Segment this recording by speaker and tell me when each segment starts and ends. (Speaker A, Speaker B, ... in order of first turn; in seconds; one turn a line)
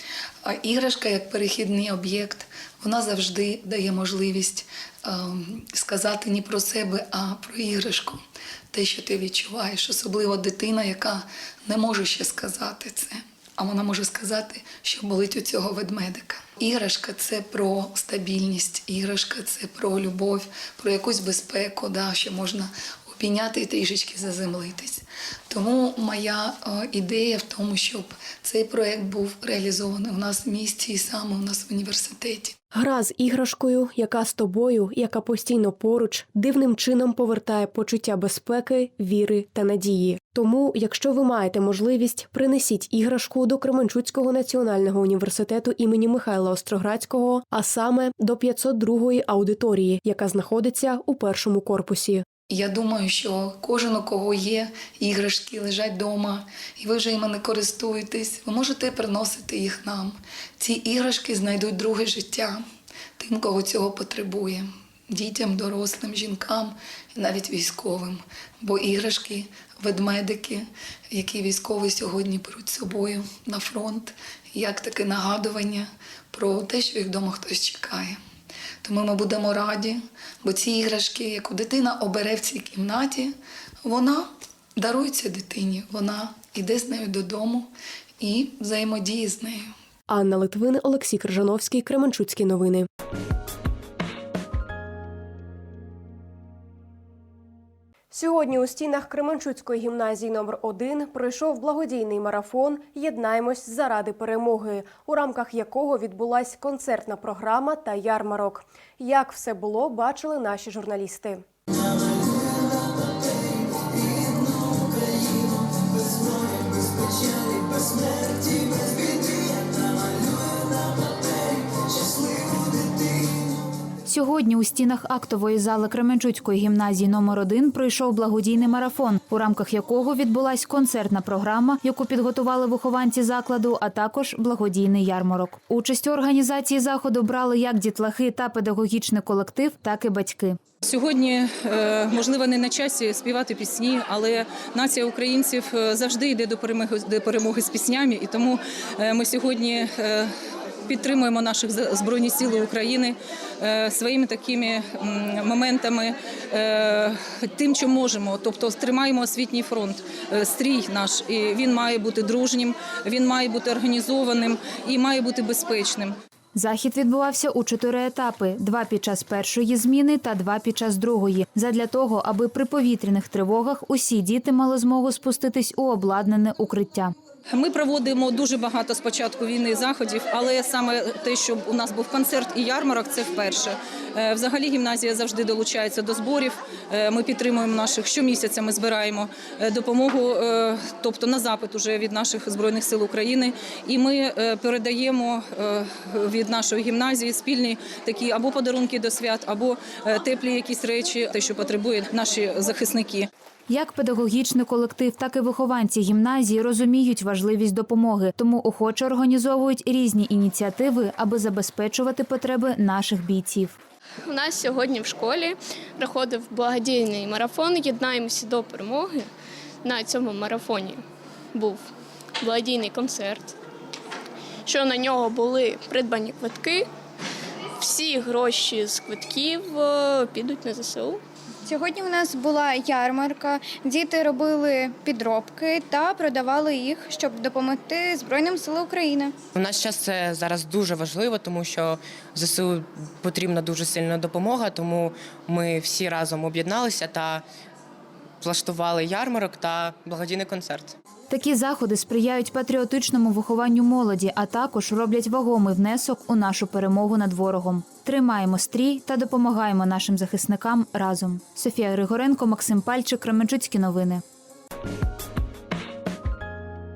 Speaker A: 0.4-8.2
Speaker A: 8.7-32.5
Speaker B: 32.7-52.2
Speaker A: 52.5-62.6
Speaker A: 63.2-78.2
Speaker A: 78.8-83.3
Speaker A: 83.8-87.7
Speaker A: 88.2-89.7
Speaker B: 90.1-92.9
Speaker B: 98.1-111.4
Speaker C: 124.0-140.6
Speaker D: 140.8-150.3
Speaker D: 150.8-166.2
Speaker C: 166.5-177.1
Speaker D: 177.5-203.3
Speaker C: 203.7-213.8
Speaker E: 214.3-219.3
Speaker E: 219.8-221.0
Speaker E: 221.5-221.8
Speaker E: 222.4-223.5
Speaker E: 224.7-226.8
Speaker E: 227.8-231.2
Speaker F: 231.7-239.3
Speaker G: 239.5-247.4
Speaker G: 248.4-250.9
Speaker C: 251.3-264.2